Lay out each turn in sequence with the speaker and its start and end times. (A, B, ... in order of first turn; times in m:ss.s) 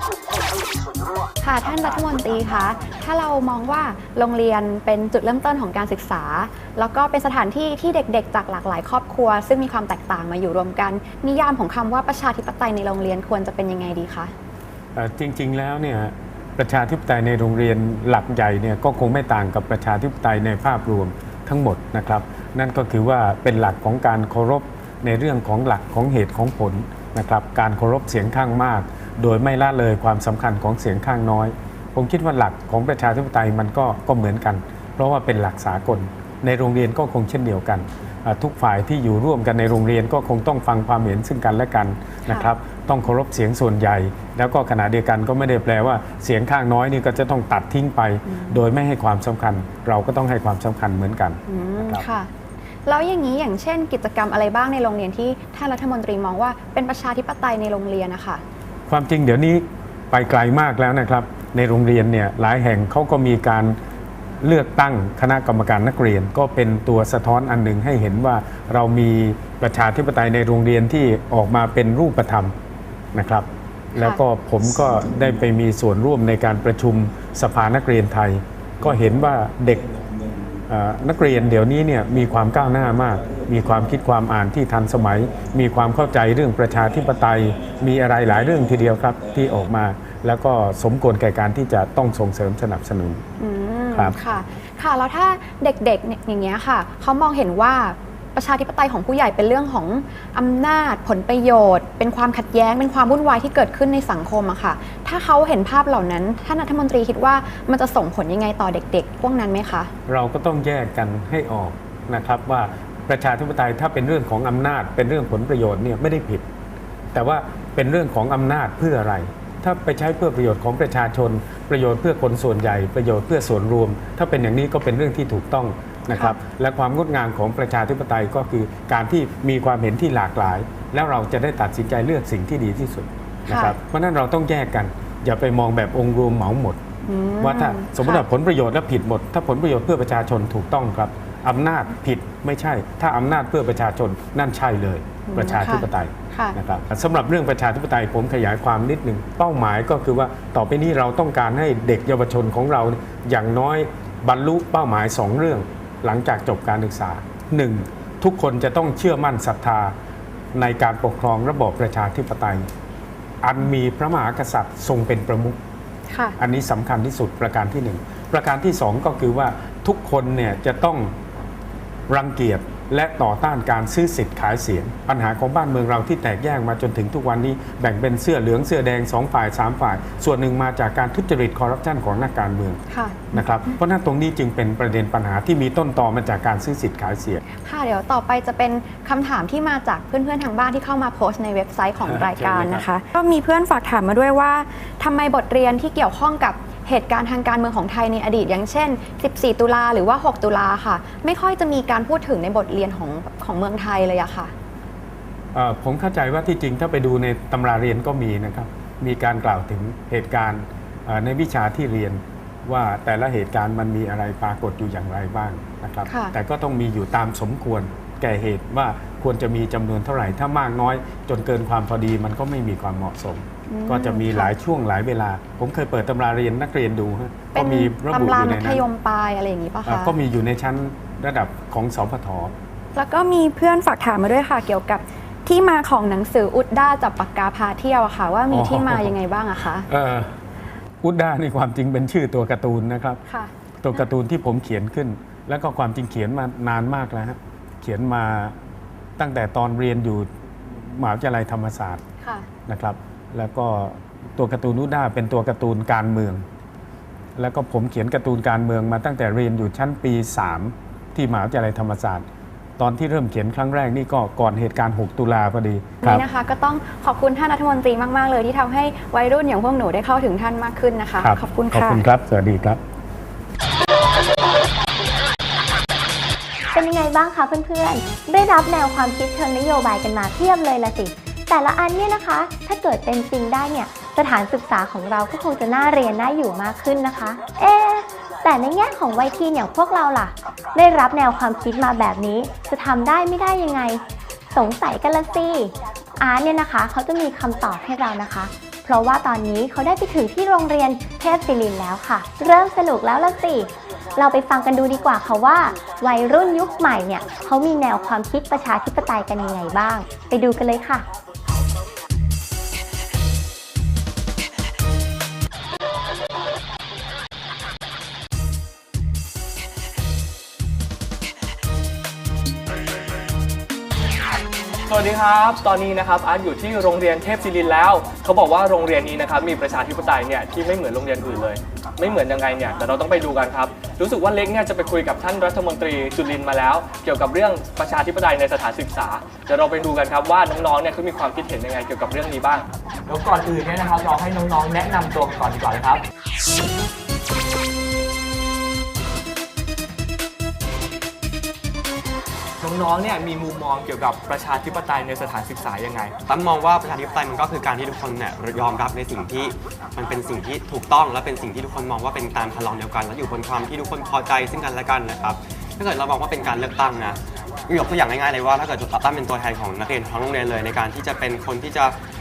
0:01.4-0:14.3 A
0:15.0-0:52.1 B
0:42.3-0:42.5 A
0:48.3-0:48.6 A
0:51.5-0:52.3 A
0:52.9-0:58.4 A
0:58.9-1:03.8 B
1:04.4-1:12.5 B
1:13.1-1:19.8 B
1:14.0-1:14.2 A
1:20.7-1:33.2 B
1:33.4-1:49.9 A
1:50.1-1:56.5 B
1:57.1-2:16.8 B
2:13.5-2:13.8 A
2:17.0-2:18.2 A
2:17.4-2:39.9 B
2:25.3-2:26.6 A
2:40.6-2:42.7 B
2:43.4-2:45.6 B
2:46.1-2:46.4 A
2:46.4-2:51.1 B
2:52.1-3:02.8 B
3:02.9-3:03.5 A
3:03.3-3:07.4 B
3:07.6-3:24.5 A
3:12.0-3:12.9 B
3:25.5-3:48.8 B
3:36.1-3:36.3 A
3:43.7-3:44.5 A
3:47.5-3:50.1 A
3:49.9-3:52.5 B
3:53.0-3:59.9 A
3:58.5-3:59.1 B
3:59.9-4:00.3 B
4:01.0-4:03.2 B
4:03.8-4:08.6 B
4:09.2-4:12.0 B
4:12.2-4:12.5 A
4:12.7-4:16.4 B
4:17.4-4:22.2 B
4:22.8-4:26.2 B
4:26.0-4:32.0 A
4:31.2-4:32.8 B
4:36.7-5:11.1 C
5:24.9-5:46.0 D
5:52.6-5:56.1 D
5:56.3-6:12.0 E